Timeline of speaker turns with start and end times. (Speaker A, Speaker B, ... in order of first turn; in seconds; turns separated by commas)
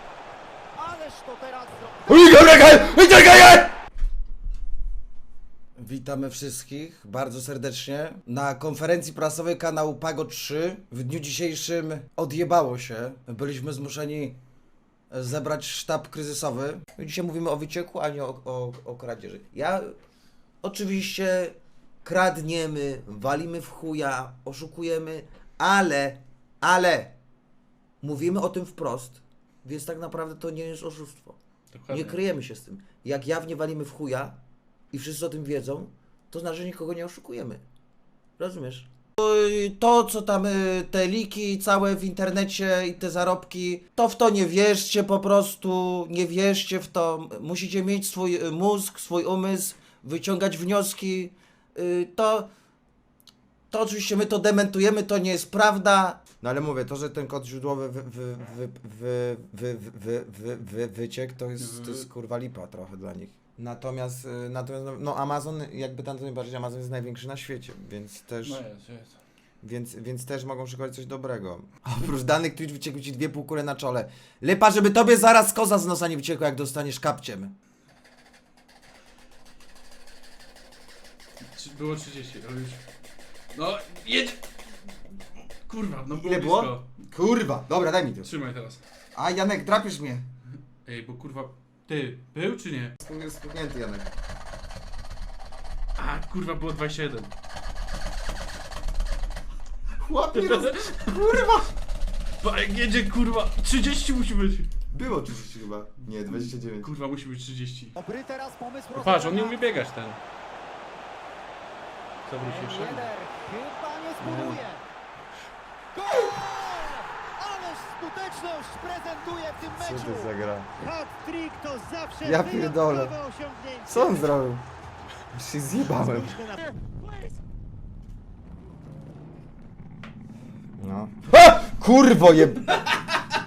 Speaker A: 0.8-2.2, Speaker B: 2.1-3.7, Speaker B: 5.8-14.4, Speaker B: 15.1-19.9, Speaker B: 20.6-27.1, Speaker B: 28.0-31.4, Speaker C: 31.7-32.2, Speaker B: 31.9-34.4, Speaker B: 34.9-37.6, Speaker B: 38.4-52.5, Speaker B: 53.7-68.6, Speaker C: 61.6-62.1, Speaker C: 68.4-69.2, Speaker B: 69.6-77.5, Speaker C: 81.5-82.8, Speaker C: 83.5-84.4, Speaker C: 85.7-86.9, Speaker B: 86.2-88.3, Speaker C: 88.2-88.8, Speaker B: 89.1-90.2, Speaker C: 90.8-92.9, Speaker B: 93.0-94.1, Speaker C: 96.0-97.3, Speaker B: 100.0-101.7, Speaker C: 100.3-100.9, Speaker C: 102.4-104.7, Speaker B: 104.9-106.9, Speaker C: 106.1-107.9, Speaker A: 108.0-109.6, Speaker C: 108.9-110.2, Speaker C: 112.3-113.1, Speaker A: 112.4-114.8, Speaker C: 114.2-114.6, Speaker A: 115.9-120.3, Speaker B: 119.7-120.8, Speaker D: 120.9-124.0, Speaker B: 122.2-123.2, Speaker B: 123.8-124.6, Speaker B: 125.3-126.4, Speaker B: 130.8-132.9